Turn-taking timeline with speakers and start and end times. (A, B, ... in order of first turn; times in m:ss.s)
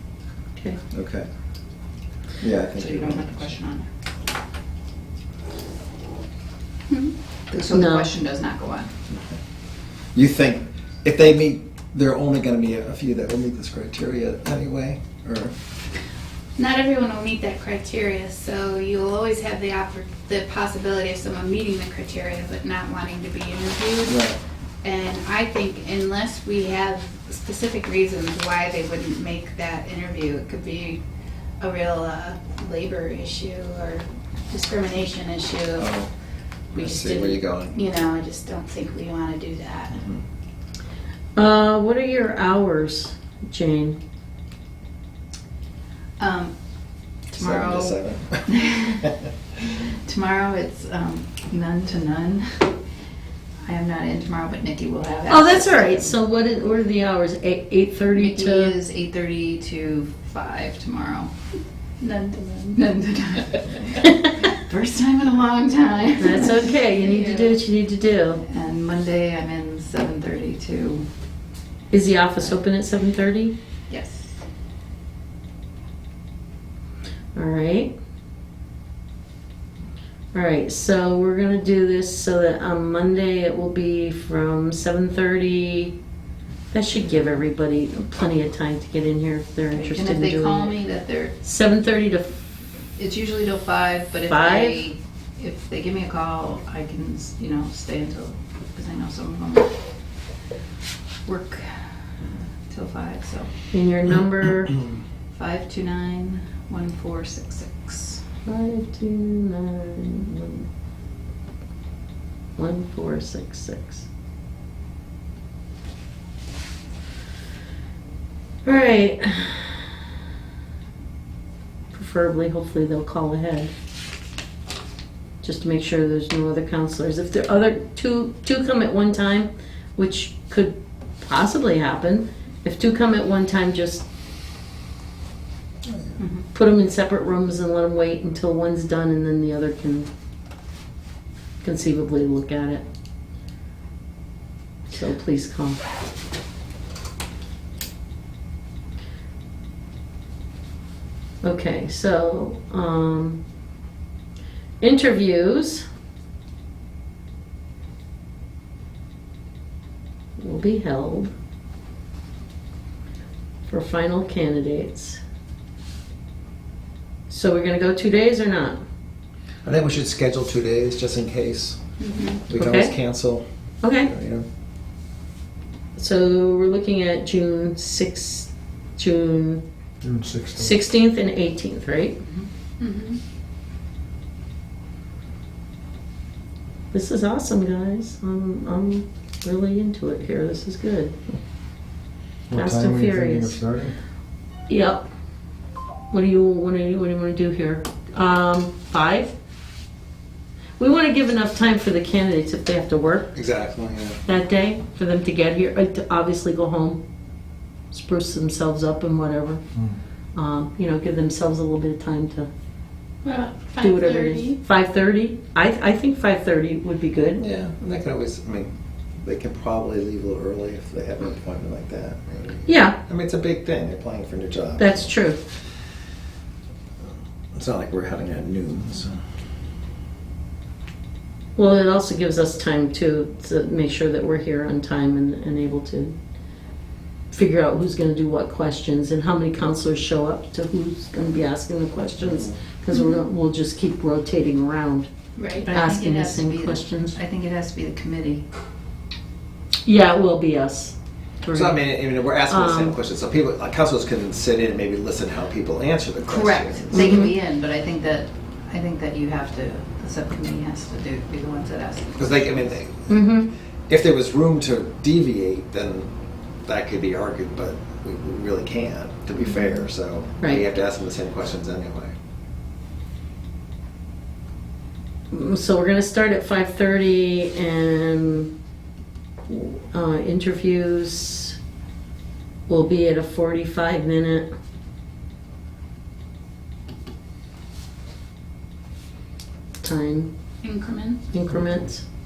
0:00.9-0:01.3 A
0:02.4-0:03.5 A
0:02.7-0:03.9 B
0:06.9-0:07.2 C
0:07.5-0:08.9 B
0:07.7-0:08.1 D
0:09.1-0:09.4 A
0:10.2-0:15.5 A
0:16.6-0:24.2 C
0:24.1-0:24.4 A
0:24.8-0:31.0 C
0:31.6-0:35.9 C
0:35.8-0:36.1 A
0:36.7-0:37.8 A
0:36.8-0:40.0 C
0:41.4-0:44.0 D
0:46.2-0:46.5 B
0:47.3-0:52.8 B
0:47.4-0:49.1 A
0:53.6-0:56.1 B
0:55.3-0:58.8 D
0:58.2-1:01.3 B
1:02.0-1:02.9 C
1:02.8-1:06.8 B
1:06.2-1:08.4 D
1:06.7-1:07.5 C
1:08.5-1:11.1 B
1:11.9-1:13.6 D
1:13.9-1:14.3 B
1:17.4-1:18.0 D
1:20.3-1:26.0 D
1:26.7-1:30.8 D
1:29.7-1:31.4 B
1:31.4-1:32.4 D
1:33.0-1:39.7 B
1:34.3-1:34.9 D
1:41.3-1:43.5 B
1:43.7-1:44.8 D
1:45.3-1:48.3 B
1:48.4-1:50.7 D
1:52.6-1:54.1 D
1:58.6-2:00.0 D
2:01.9-2:03.7 D
2:05.4-2:14.1 D
2:16.2-2:16.4 B
2:16.5-2:20.1 D
2:21.6-2:22.8 D
2:24.9-2:25.8 D
2:31.4-2:33.4 D
2:34.8-2:35.8 D
2:40.4-2:41.3 D
2:43.7-2:45.2 D
2:47.3-2:48.8 D
2:49.6-2:51.8 A
2:52.0-2:52.4 C
2:52.5-2:53.4 A
2:52.5-2:52.9 D
2:53.8-2:54.1 D
2:54.0-2:54.5 A
2:56.0-2:59.6 D
3:00.0-3:00.8 E
3:00.5-3:02.2 D
3:02.8-3:03.2 C
3:06.9-3:11.2 D
3:12.5-3:14.0 E
3:12.5-3:13.6 D
3:14.7-3:15.0 D
3:16.1-3:19.3 D
3:20.8-3:23.3 D
3:23.3-3:24.2 A
3:24.2-3:27.0 D
3:27.9-3:29.6 D
3:30.4-3:32.5 D
3:33.2-3:34.6 C
3:33.8-3:37.4 D
3:37.4-3:38.7 A
3:39.2-3:45.1 A
3:42.7-3:43.0 D
3:44.8-3:45.4 D
3:47.5-3:49.2 A
3:51.6-3:56.1 D
3:57.3-4:05.1 D
4:05.4-4:05.7 C
4:05.6-4:08.4 B
4:05.7-4:07.2 D
4:09.8-4:11.9 D
4:11.5-4:17.3 A
4:12.5-4:13.0 D
4:16.2-4:22.7 B
4:16.9-4:17.4 D
4:22.2-4:23.2 A
4:23.1-4:23.5 D
4:23.9-4:26.1 A
4:26.7-4:32.1 A
4:35.3-4:38.5 D
4:39.5-4:41.6 D
4:42.7-4:44.5 D
4:49.8-4:50.3 D
4:50.6-4:51.3 C
4:51.3-4:52.0 D